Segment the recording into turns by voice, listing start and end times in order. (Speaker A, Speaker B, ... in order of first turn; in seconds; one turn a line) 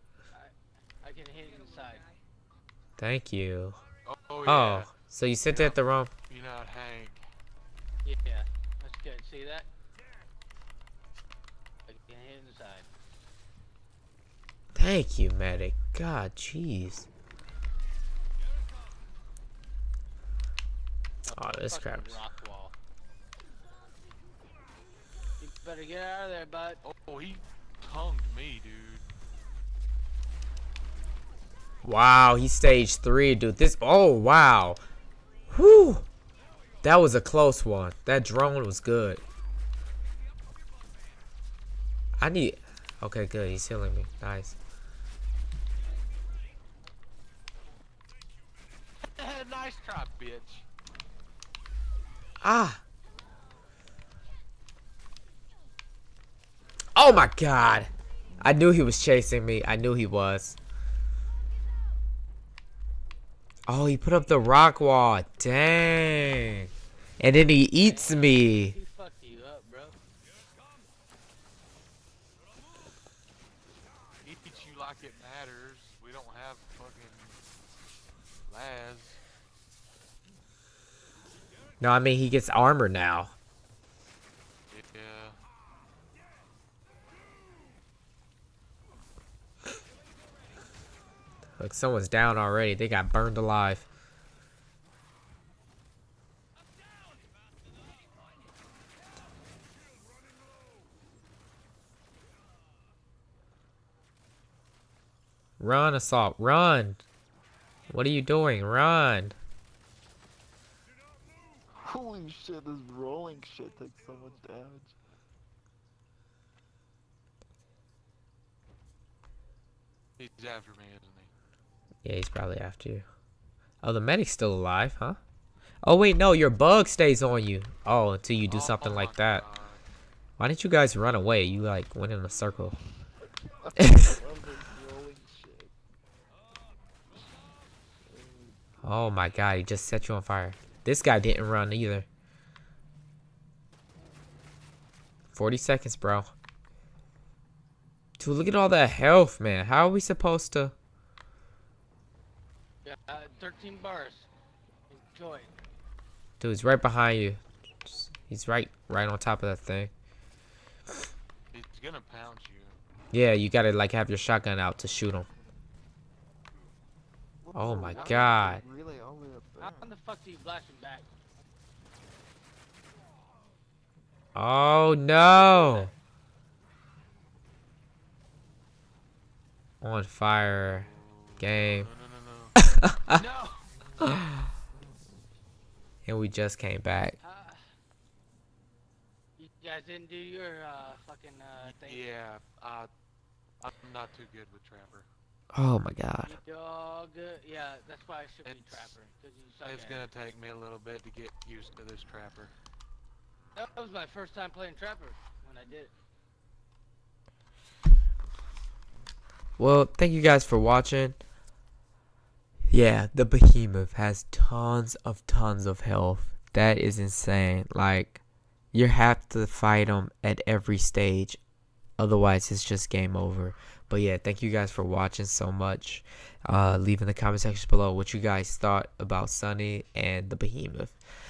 Speaker A: 0.3-2.0
Speaker B: 3.0-3.8
Speaker C: 4.0-4.9
Speaker B: 4.4-6.1
Speaker C: 5.4-7.2
Speaker A: 8.0-9.7
Speaker A: 11.9-12.9
Speaker B: 14.7-17.1
Speaker A: 21.3-22.7
Speaker B: 21.3-22.2
Speaker A: 25.4-26.8
Speaker C: 26.8-29.1
Speaker B: 31.8-34.8
Speaker B: 35.5-36.0
Speaker B: 36.8-39.2
Speaker B: 42.2-44.6
Speaker C: 49.0-50.6
Speaker B: 52.4-52.8
Speaker B: 56.9-57.9
Speaker B: 58.4-60.6
Speaker B: 63.7-66.7
Speaker B: 67.2-68.8
Speaker A: 67.8-70.0
Speaker C: 74.2-77.4
Speaker C: 78.5-79.2
Speaker B: 81.8-83.3
Speaker C: 84.7-85.4
Speaker B: 91.6-93.8
Speaker B: 105.6-107.0
Speaker B: 107.9-109.3
Speaker D: 111.7-114.9
Speaker C: 120.2-121.3
Speaker B: 122.0-123.0
Speaker B: 123.8-125.2
Speaker B: 125.8-129.4
Speaker C: 128.4-129.8
Speaker B: 130.4-132.8
Speaker D: 133.6-135.7
Speaker B: 133.8-134.1
Speaker D: 138.0-138.7
Speaker B: 138.8-142.1
Speaker B: 145.3-146.3
Speaker B: 148.2-150.7
Speaker A: 152.8-154.3
Speaker A: 154.9-155.5
Speaker B: 156.4-159.9
Speaker C: 161.5-162.8
Speaker B: 163.1-165.3
Speaker D: 167.4-169.9
Speaker B: 167.5-168.6
Speaker A: 167.9-168.2
Speaker A: 169.6-171.1
Speaker B: 174.3-175.9
Speaker B: 179.8-181.9
Speaker C: 180.6-182.5
Speaker B: 182.6-183.2
Speaker A: 183.1-183.6
Speaker B: 184.0-184.4
Speaker B: 186.1-187.2
Speaker A: 187.2-187.6
Speaker A: 189.4-192.1
Speaker C: 191.6-192.9
Speaker C: 193.6-195.1
Speaker B: 195.5-196.4
Speaker A: 196.2-200.1
Speaker C: 198.4-198.9
Speaker C: 199.6-202.5
Speaker A: 203.5-205.9
Speaker B: 209.6-211.2
Speaker B: 212.7-218.2
Speaker B: 218.7-221.4
Speaker B: 222.0-231.0